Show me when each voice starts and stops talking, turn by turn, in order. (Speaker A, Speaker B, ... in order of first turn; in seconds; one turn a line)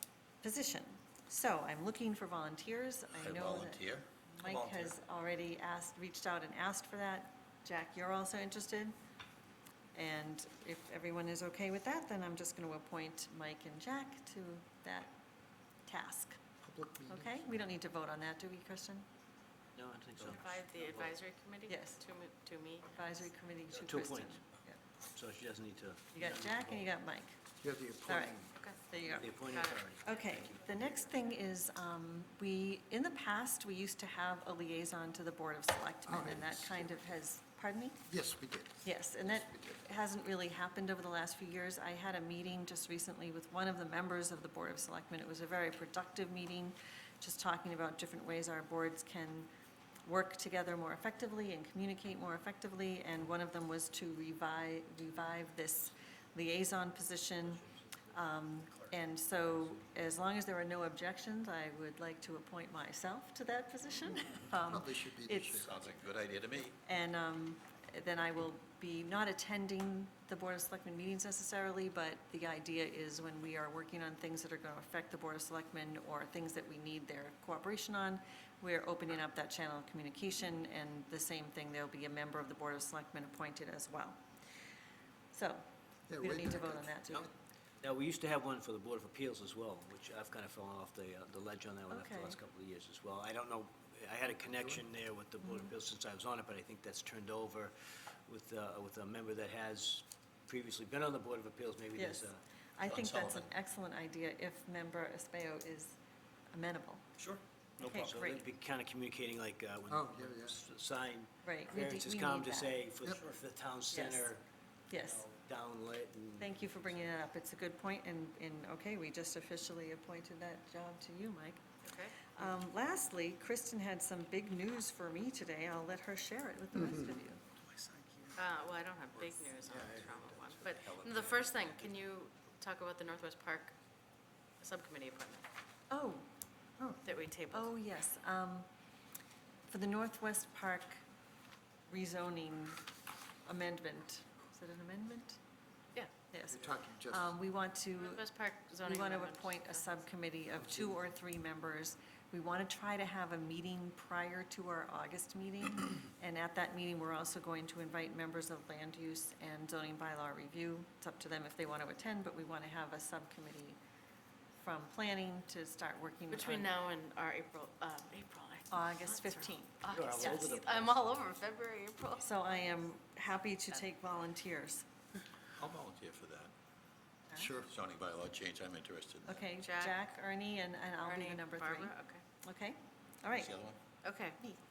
Speaker A: 0.4-8.9
Speaker B: 3.1-4.9
Speaker A: 9.9-15.1
Speaker A: 15.8-16.4
Speaker C: 16.6-17.6
Speaker A: 17.1-19.0
Speaker D: 19.7-21.1
Speaker E: 20.1-23.3
Speaker A: 21.7-22.0
Speaker A: 22.9-24.8
Speaker D: 23.7-24.4
Speaker D: 25.1-26.9
Speaker A: 26.1-27.4
Speaker C: 27.6-28.5
Speaker A: 28.1-29.4
Speaker D: 29.1-31.0
Speaker E: 29.4-29.8
Speaker A: 30.0-38.0
Speaker C: 36.1-37.0
Speaker C: 38.1-39.8
Speaker A: 38.8-49.5
Speaker A: 50.0-65.8
Speaker D: 57.7-58.0
Speaker C: 64.5-65.8
Speaker B: 65.6-66.8
Speaker A: 66.8-84.2
Speaker A: 85.3-87.3
Speaker C: 86.1-87.3
Speaker D: 87.8-102.4
Speaker A: 91.9-92.4
Speaker A: 95.4-95.7
Speaker A: 101.9-106.0
Speaker B: 102.8-103.5
Speaker A: 106.5-107.1
Speaker D: 107.2-114.4
Speaker A: 107.8-108.5
Speaker C: 109.9-110.6
Speaker A: 111.4-112.8
Speaker A: 113.9-114.3
Speaker A: 114.9-115.2
Speaker D: 115.0-117.1
Speaker A: 116.4-121.6
Speaker E: 121.8-122.3
Speaker A: 122.3-127.4
Speaker D: 127.8-128.3
Speaker E: 128.3-133.7
Speaker B: 131.0-131.4
Speaker E: 134.6-135.4
Speaker A: 135.9-136.3
Speaker A: 136.8-138.7
Speaker E: 137.0-137.7
Speaker A: 139.7-141.0
Speaker A: 141.9-142.8
Speaker A: 143.4-145.4
Speaker A: 146.3-148.2
Speaker C: 146.5-147.3
Speaker E: 148.0-150.1
Speaker A: 148.8-163.8
Speaker A: 164.6-166.7
Speaker E: 166.3-172.4
Speaker A: 168.7-170.4
Speaker D: 169.9-171.4
Speaker A: 172.2-174.8
Speaker E: 173.6-173.9
Speaker B: 175.6-176.5
Speaker C: 177.3-177.7
Speaker B: 177.6-179.4
Speaker A: 179.2-183.6
Speaker E: 179.6-180.0
Speaker E: 181.0-182.2
Speaker B: 183.3-183.8
Speaker E: 184.0-184.4